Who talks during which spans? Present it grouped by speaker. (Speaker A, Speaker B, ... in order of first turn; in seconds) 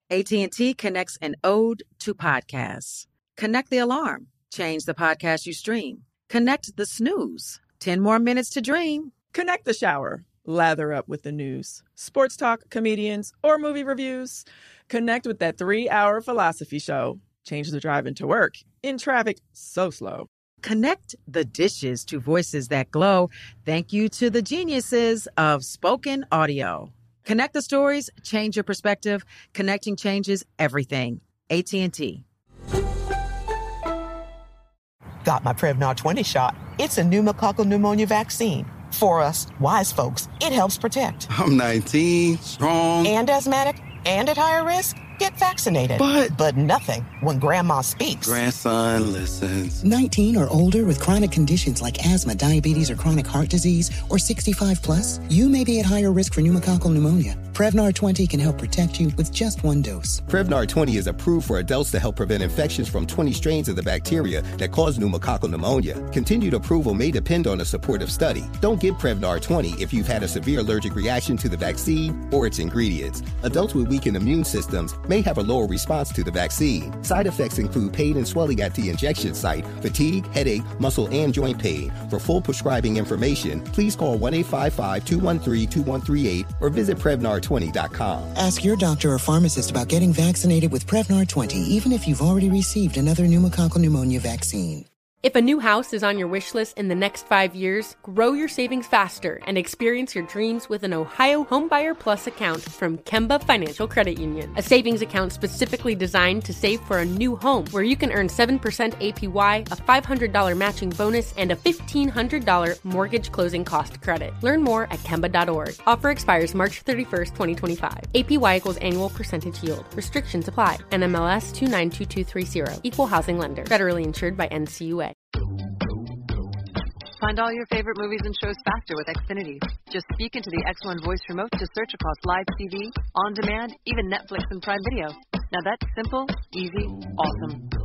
Speaker A: 0.1-9.1, 20.6-32.2
Speaker B: 9.3-20.3
Speaker C: 35.2-41.3, 43.0-48.4
Speaker D: 41.3-43.1, 46.0-46.3, 48.2-49.8
Speaker E: 49.8-60.2, 88.3-94.8
Speaker F: 60.3-88.3
Speaker G: 95.2-125.1
Speaker H: 127.2-137.7